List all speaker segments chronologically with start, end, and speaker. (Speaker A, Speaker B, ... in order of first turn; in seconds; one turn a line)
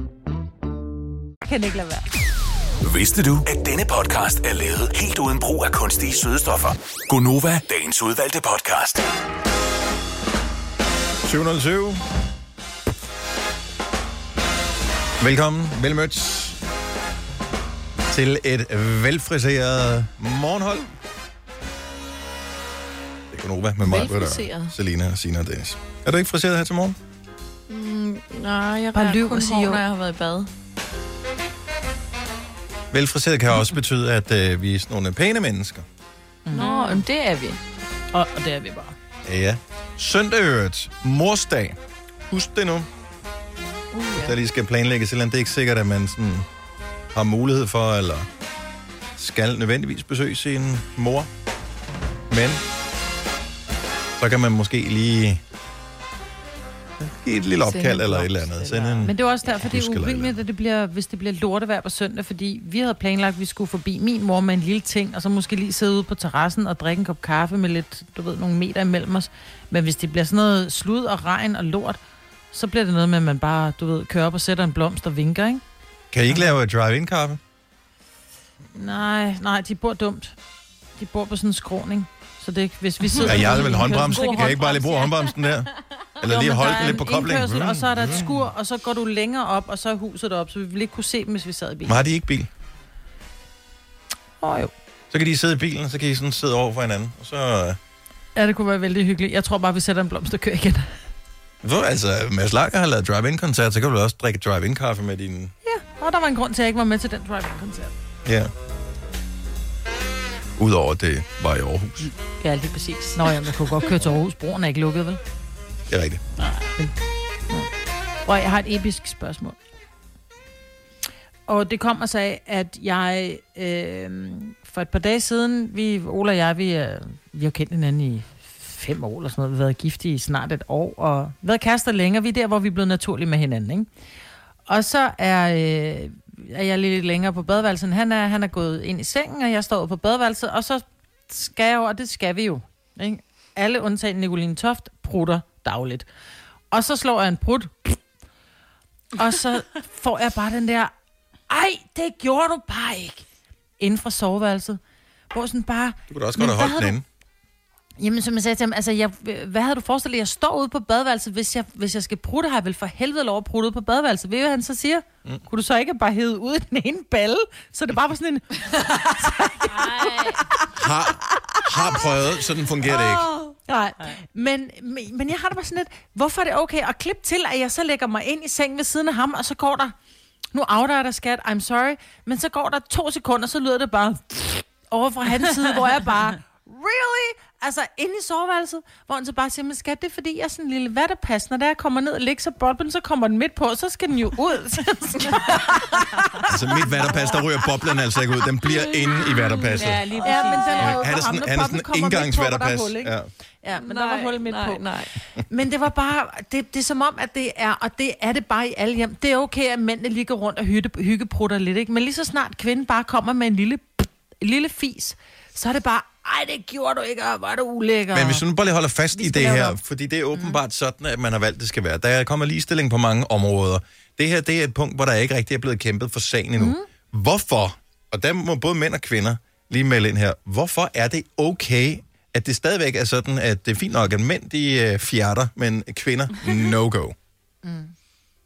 Speaker A: 1.5-2.0
Speaker B: 2.8-9.0
Speaker C: 11.2-12.0
Speaker C: 15.2-16.6
Speaker C: 18.1-20.9
Speaker C: 23.3-27.0
Speaker D: 23.8-24.7
Speaker D: 27.7-30.5
Speaker A: 28.9-29.8
Speaker C: 32.9-35.9
Speaker A: 36.5-37.0
Speaker D: 36.5-37.6
Speaker A: 38.1-39.0
Speaker C: 39.2-41.8
Speaker C: 42.3-42.9
Speaker D: 43.9-44.4
Speaker C: 44.2-46.5
Speaker C: 47.1-48.3
Speaker C: 49.2-51.3
Speaker C: 52.3-52.6
Speaker C: 54.2-55.4
Speaker C: 57.0-60.4
Speaker D: 57.6-59.1
Speaker A: 59.0-72.0
Speaker A: 72.5-75.6
Speaker C: 76.1-77.4
Speaker A: 78.7-80.3
Speaker A: 81.0-84.8
Speaker E: 83.0-85.3
Speaker C: 83.2-88.4
Speaker A: 86.2-92.0
Speaker C: 91.9-92.5
Speaker A: 94.4-94.7
Speaker C: 95.1-97.8
Speaker A: 98.4-100.9
Speaker C: 101.6-105.5
Speaker A: 105.6-107.9
Speaker C: 108.2-108.5
Speaker C: 110.6-112.1
Speaker E: 112.4-113.5
Speaker A: 113.2-115.2
Speaker C: 115.9-116.2
Speaker A: 118.3-119.6
Speaker A: 121.5-133.9
Speaker A: 134.7-146.1
Speaker A: 146.7-148.0
Speaker A: 149.2-150.9
Speaker A: 151.5-153.2
Speaker A: 153.8-154.8
Speaker A: 155.3-157.0
Speaker C: 156.1-157.1
Speaker A: 158.0-170.2
Speaker E: 169.7-170.4
Speaker C: 170.8-173.3
Speaker A: 173.7-179.9
Speaker A: 180.5-197.4
Speaker D: 195.2-195.8
Speaker C: 196.5-200.1
Speaker D: 198.6-200.6
Speaker E: 199.8-201.0
Speaker A: 200.2-204.8
Speaker C: 200.8-203.3
Speaker D: 203.7-205.1
Speaker A: 205.5-218.4
Speaker C: 218.1-237.2
Speaker A: 219.2-219.8
Speaker A: 220.3-220.6
Speaker A: 226.6-226.9
Speaker A: 237.6-237.9